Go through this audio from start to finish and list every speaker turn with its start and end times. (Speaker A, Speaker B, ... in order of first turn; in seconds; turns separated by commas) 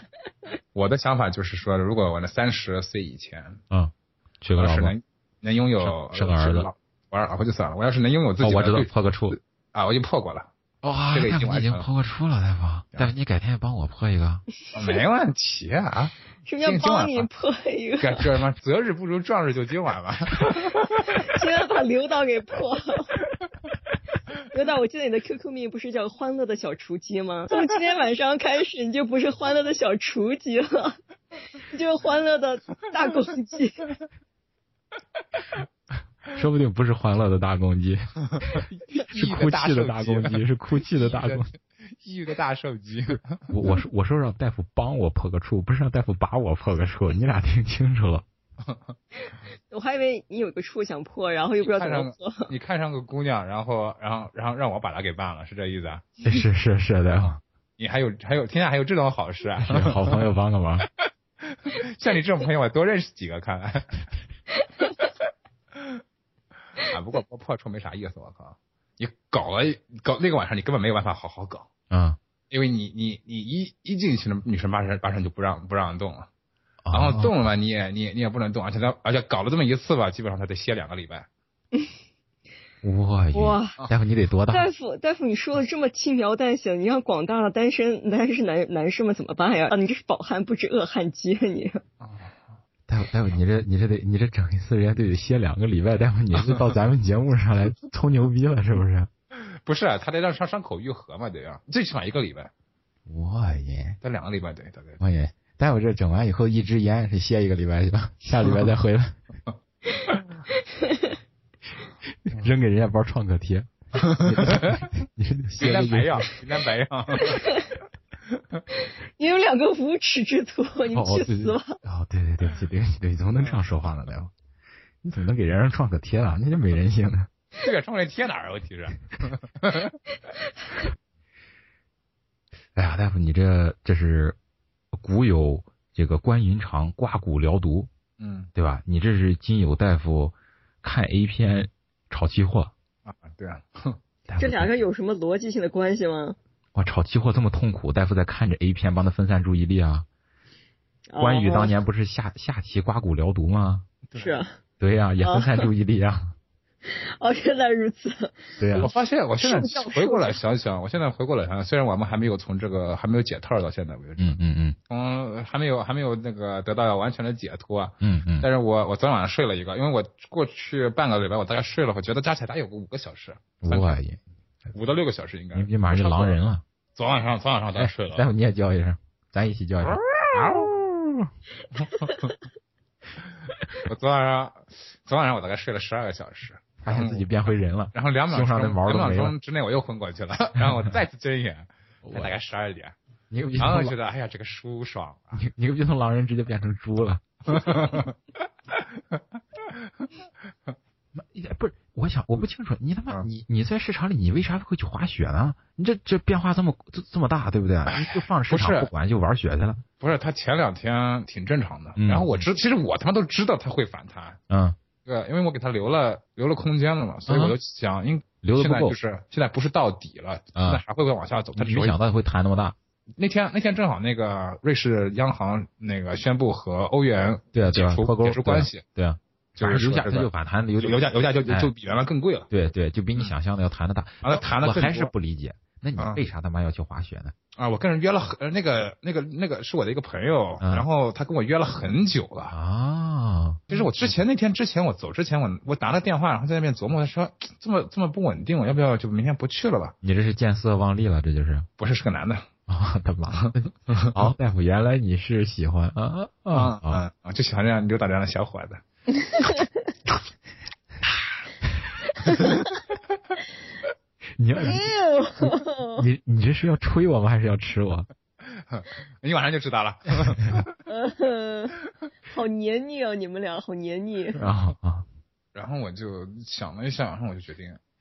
Speaker A: 0.7-3.6, Speaker B: 3.7-5.0, Speaker A: 4.5-10.5, Speaker B: 5.8-6.7, Speaker B: 8.4-9.4, Speaker B: 10.8-14.4, Speaker A: 11.1-11.9, Speaker A: 14.7-17.3, Speaker C: 16.5-18.3, Speaker A: 18.0-21.3, Speaker C: 20.8-23.2, Speaker C: 24.5-31.0, Speaker C: 31.6-33.9, Speaker B: 36.3-41.5, Speaker A: 38.4-40.4, Speaker A: 41.0-41.5, Speaker A: 42.0-43.5, Speaker B: 43.5-48.2, Speaker C: 49.7-52.5, Speaker A: 51.6-56.2, Speaker B: 56.2-57.4, Speaker A: 57.2-60.3, Speaker B: 59.6-60.9, Speaker A: 61.0-64.1, Speaker A: 66.8-71.7, Speaker B: 71.9-72.2, Speaker A: 72.5-76.3, Speaker B: 76.8-77.3, Speaker A: 76.9-81.3, Speaker B: 82.8-84.7, Speaker C: 83.3-83.8, Speaker C: 84.5-91.8, Speaker A: 92.0-92.4, Speaker B: 92.9-99.1, Speaker A: 99.4-102.5, Speaker B: 103.1-104.0, Speaker A: 104.0-105.0, Speaker B: 105.0-109.2, Speaker C: 109.9-111.2, Speaker B: 112.2-116.3, Speaker A: 114.0-114.9, Speaker A: 115.6-117.5, Speaker C: 117.3-117.7, Speaker A: 118.3-118.6, Speaker C: 119.2-121.8, Speaker B: 120.9-124.3, Speaker B: 125.0-127.3, Speaker A: 127.5-130.0, Speaker B: 132.8-134.4, Speaker B: 134.9-137.9, Speaker A: 138.2-138.5, Speaker B: 138.6-142.7, Speaker A: 143.1-144.0, Speaker B: 144.3-144.7, Speaker C: 144.4-146.4, Speaker B: 146.8-150.1, Speaker C: 151.1-151.7, Speaker B: 151.2-153.9, Speaker A: 154.1-154.3, Speaker C: 154.2-154.5, Speaker B: 154.8-156.3, Speaker C: 155.2-155.7, Speaker C: 156.8-160.4, Speaker B: 158.6-158.9, Speaker A: 158.8-174.0, Speaker B: 164.2-164.8, Speaker B: 168.0-168.5, Speaker B: 173.6-174.2, Speaker A: 174.7-176.4, Speaker B: 175.6-176.6, Speaker A: 177.0-178.2, Speaker B: 177.8-181.3, Speaker A: 181.7-182.3, Speaker A: 183.7-187.3, Speaker B: 186.8-189.3, Speaker A: 187.9-192.9, Speaker B: 192.1-192.3, Speaker B: 193.3-194.0, Speaker A: 193.6-195.4, Speaker B: 195.3-198.0, Speaker A: 197.5-198.1, Speaker B: 201.1-209.8, Speaker A: 207.9-208.9, Speaker A: 210.0-214.4, Speaker B: 212.0-212.4, Speaker B: 214.5-214.8, Speaker A: 215.1-222.0, Speaker B: 217.3-217.6, Speaker B: 218.4-219.0, Speaker B: 220.6-220.8, Speaker B: 221.6-222.8, Speaker A: 223.2-228.8, Speaker B: 227.5-231.7, Speaker A: 229.6-232.5, Speaker B: 232.5-237.3, Speaker A: 234.2-235.1, Speaker A: 236.0-236.2, Speaker A: 237.6-242.6, Speaker B: 240.6-240.9, Speaker B: 242.5-244.2, Speaker A: 243.7-249.9, Speaker B: 250.0-251.7, Speaker A: 251.8-252.5, Speaker B: 252.7-257.0, Speaker A: 253.3-254.2, Speaker A: 256.5-258.8, Speaker C: 259.4-259.7, Speaker B: 261.6-261.9, Speaker C: 262.2-262.7, Speaker B: 264.4-264.9, Speaker C: 264.6-266.1, Speaker B: 265.4-268.1, Speaker A: 268.6-270.8, Speaker C: 270.9-271.8, Speaker C: 272.3-274.4, Speaker B: 274.4-275.1, Speaker A: 275.6-277.8